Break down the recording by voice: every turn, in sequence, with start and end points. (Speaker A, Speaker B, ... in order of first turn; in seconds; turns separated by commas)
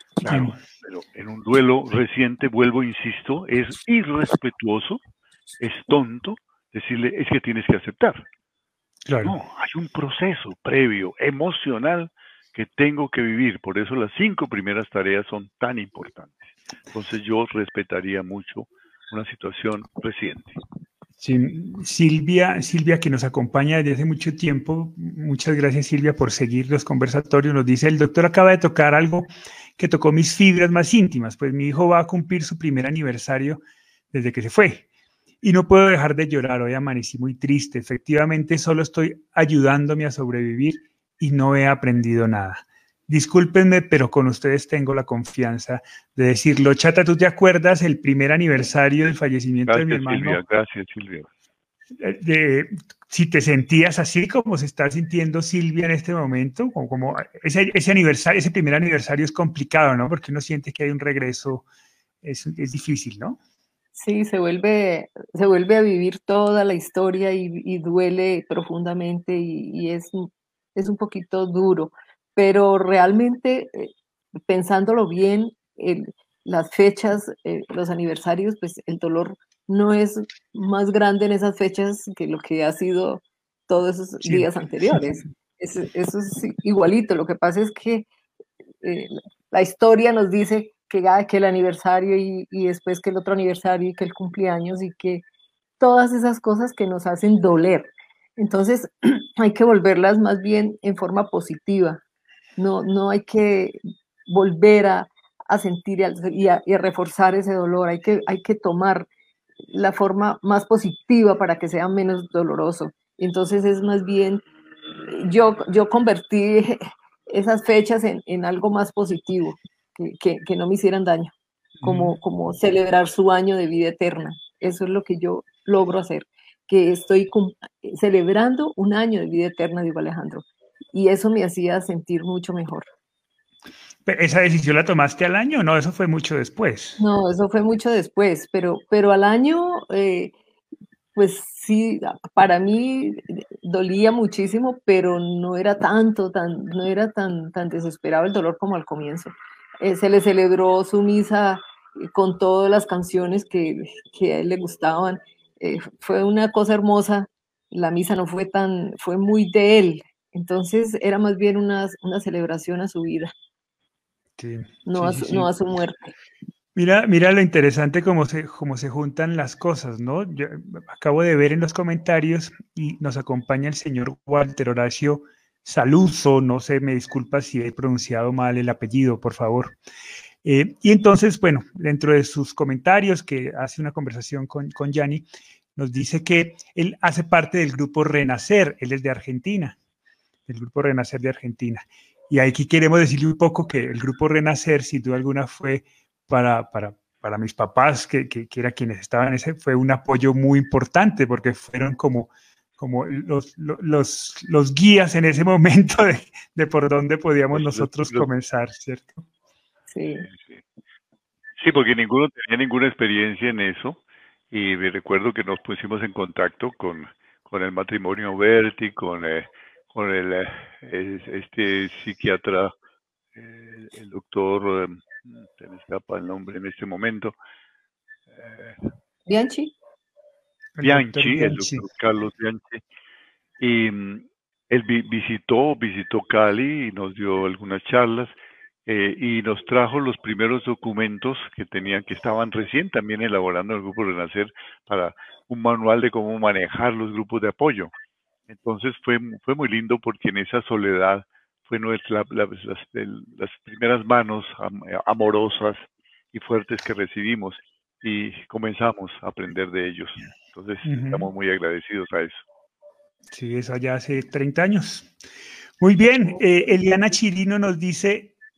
Speaker A: 0.2-5.0, Speaker B: 0.3-0.6, Speaker A: 5.6-8.2, Speaker B: 9.1-9.4, Speaker A: 9.2-20.6, Speaker B: 21.2-33.6, Speaker B: 34.1-34.9, Speaker B: 35.4-50.4, Speaker A: 49.7-51.3, Speaker B: 52.0-61.7, Speaker B: 62.2-63.4, Speaker C: 64.0-73.9, Speaker C: 74.5-88.1, Speaker B: 84.2-85.0, Speaker C: 88.8-95.2, Speaker C: 95.8-102.0, Speaker C: 102.6-109.1, Speaker C: 109.7-114.5, Speaker C: 115.1-132.9, Speaker B: 121.8-122.2, Speaker B: 134.1-137.0, Speaker C: 137.0-140.3, Speaker C: 141.2-163.3, Speaker B: 164.4-165.5, Speaker C: 164.9-166.1, Speaker B: 166.8-179.8, Speaker B: 180.4-189.8, Speaker B: 190.5-209.3, Speaker A: 207.5-208.3, Speaker C: 209.9-210.3, Speaker A: 210.3-210.7, Speaker A: 211.6-222.7, Speaker A: 223.3-227.3, Speaker A: 228.3-228.8, Speaker C: 229.3-229.7, Speaker B: 230.8-231.9, Speaker A: 230.8-232.8, Speaker A: 233.6-238.3, Speaker A: 238.9-247.9, Speaker A: 248.5-262.4, Speaker B: 260.9-261.3, Speaker B: 263.3-265.1, Speaker B: 265.8-268.3